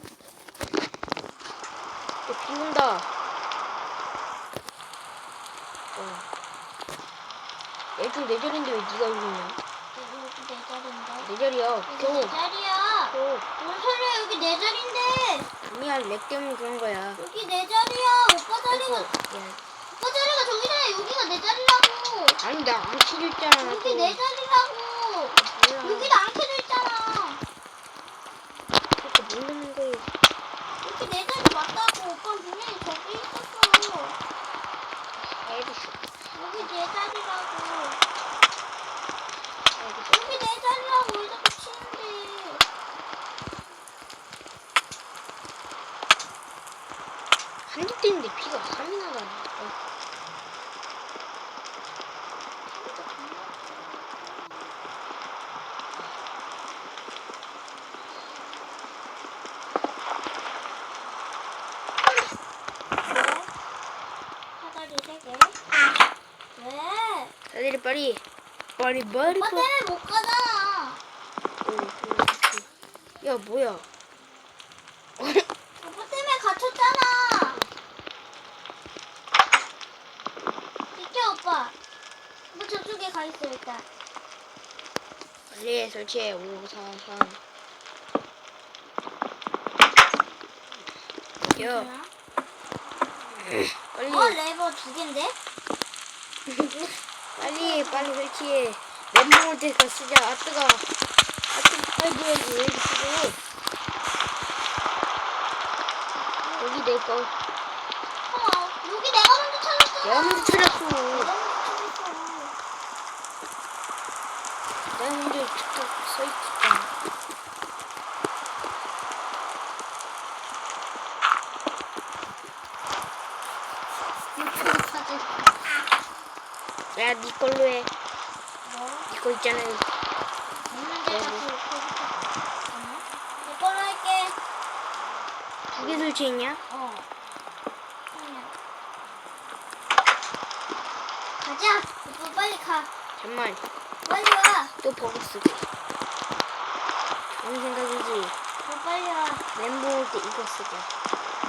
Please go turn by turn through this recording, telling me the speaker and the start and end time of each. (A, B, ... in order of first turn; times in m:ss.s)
0:02.2-0:03.1 A
0:05.9-0:06.2 A
0:08.0-0:09.6 A
0:09.9-0:11.3 B
0:11.2-0:12.4 A
0:11.9-0:15.5 B
0:13.1-0:13.4 A
0:15.6-0:17.2 A
0:17.2-0:19.1 B
0:18.7-0:19.6 A
0:19.9-0:22.4 B
0:22.4-0:24.2 A
0:23.6-0:27.4 B
0:25.4-0:26.1 A
0:29.0-0:30.1 A
0:30.8-0:34.2 B
0:35.2-0:36.0 A
0:36.3-0:38.0 B
0:39.7-0:40.4 A
0:40.1-0:42.6 B
0:47.7-0:49.8 A
0:52.6-0:54.8 B
1:03.0-1:03.5 B
1:04.6-1:05.6 B
1:06.5-1:07.3 B
1:07.5-1:08.2 A
1:08.8-1:09.7 A
1:09.2-1:11.0 B
1:11.6-1:12.7 A
1:13.2-1:13.9 A
1:15.2-1:15.4 A
1:15.8-1:17.6 B
1:20.9-1:21.7 B
1:22.5-1:23.9 B
1:25.5-1:27.4 A
1:31.5-1:31.9 A
1:31.5-1:32.1 B
1:33.4-1:34.4 A
1:34.0-1:35.4 B
1:36.5-1:40.8 A
1:37.4-1:38.1 B
1:41.5-1:43.4 A
1:46.6-1:47.3 A
1:48.2-1:52.5 B
1:50.0-1:51.3 A
1:54.9-1:56.9 A
2:04.3-2:05.6 B
2:06.9-2:07.9 A
2:08.6-2:09.1 B
2:09.1-2:10.0 A
2:10.6-2:14.4 B
2:11.1-2:11.4 A
2:15.7-2:16.6 A
2:15.7-2:16.0 B
2:16.7-2:17.1 B
2:18.1-2:18.5 B
2:21.4-2:22.9 B
2:23.2-2:23.6 A
2:24.0-2:24.7 B
2:24.8-2:25.6 A
2:27.4-2:28.4 A
2:28.6-2:29.4 B
2:29.5-2:30.9 A